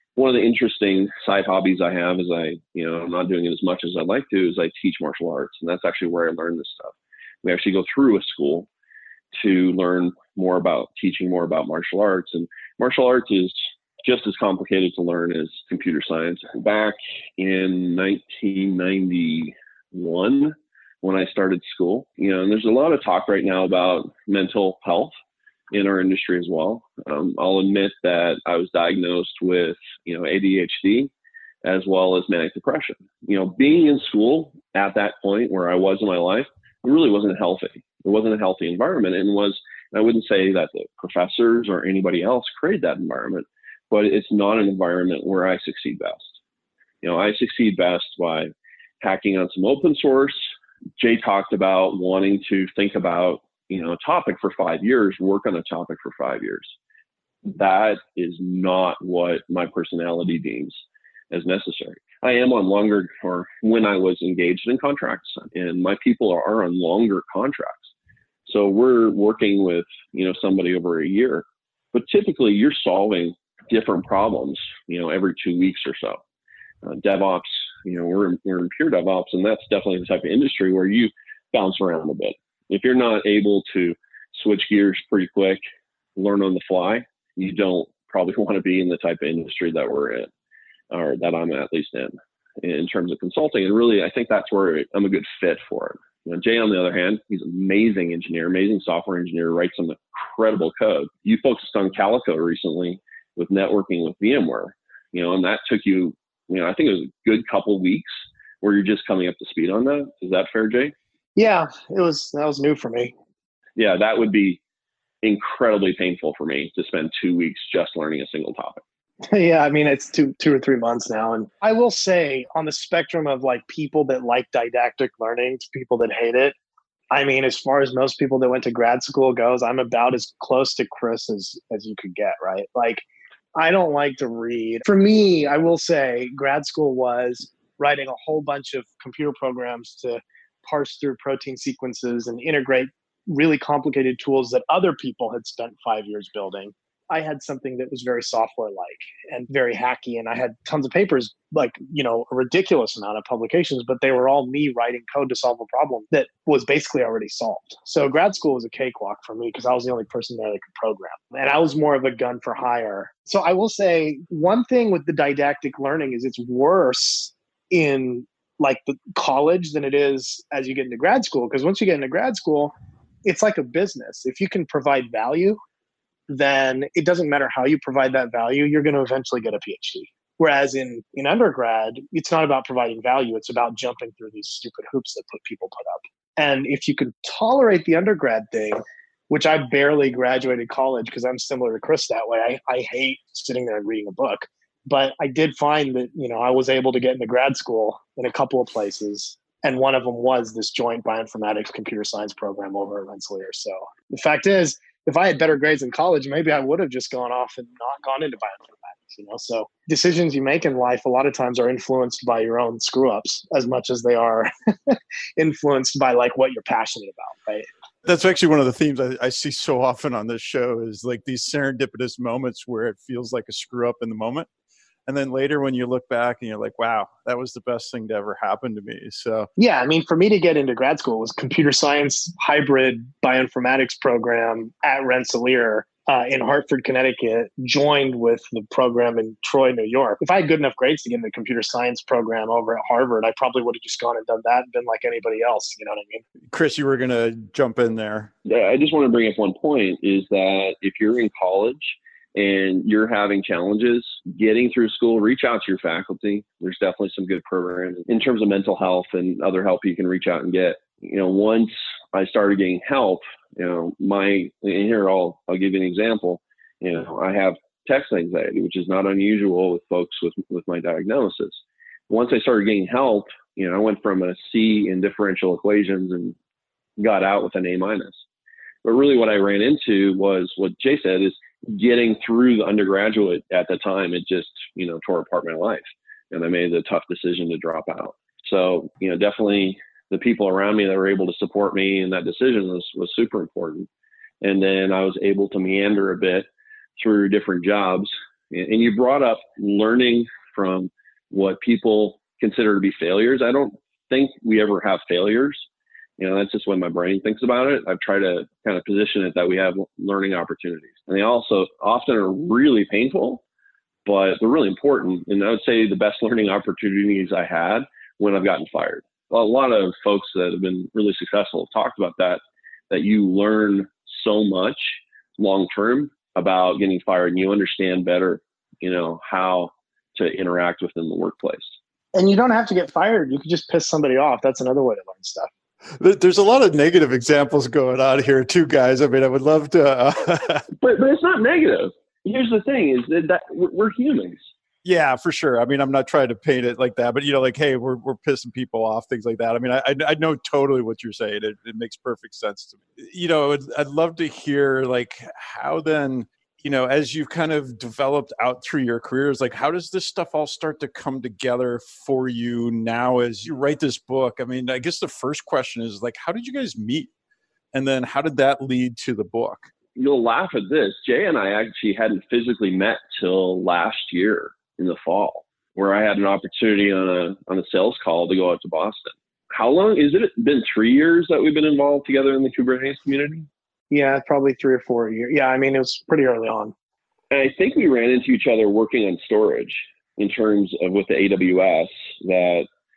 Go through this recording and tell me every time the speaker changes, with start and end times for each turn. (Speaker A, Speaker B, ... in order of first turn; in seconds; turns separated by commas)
Speaker A: 0.1-8.7, Speaker A: 9.3-25.1, Speaker A: 25.7-31.1, Speaker A: 31.6-46.4, Speaker A: 47.0-50.4, Speaker A: 51.0-56.8, Speaker A: 57.5-67.9, Speaker A: 68.5-76.2, Speaker A: 76.8-85.6, Speaker A: 86.2-90.3, Speaker A: 90.9-108.1, Speaker A: 108.6-110.9, Speaker B: 111.3-113.1, Speaker A: 113.8-114.6, Speaker A: 115.2-118.8, Speaker B: 119.3-126.5, Speaker B: 127.1-133.0, Speaker B: 133.6-172.7, Speaker B: 173.2-175.6, Speaker B: 176.3-217.7, Speaker C: 218.0-224.5, Speaker C: 225.1-229.5, Speaker B: 229.6-246.2, Speaker C: 246.5-248.3, Speaker A: 248.4-276.4, Speaker A: 277.0-278.2, Speaker A: 278.8-293.9, Speaker A: 294.4-296.5, Speaker A: 297.0-305.7, Speaker A: 306.2-313.4, Speaker A: 314.1-331.8, Speaker B: 332.1-335.5, Speaker C: 336.0-340.6, Speaker A: 340.7-344.5, Speaker C: 344.8-367.1, Speaker C: 367.7-369.7, Speaker A: 369.9-383.5, Speaker B: 383.9-386.7, Speaker A: 387.3-392.7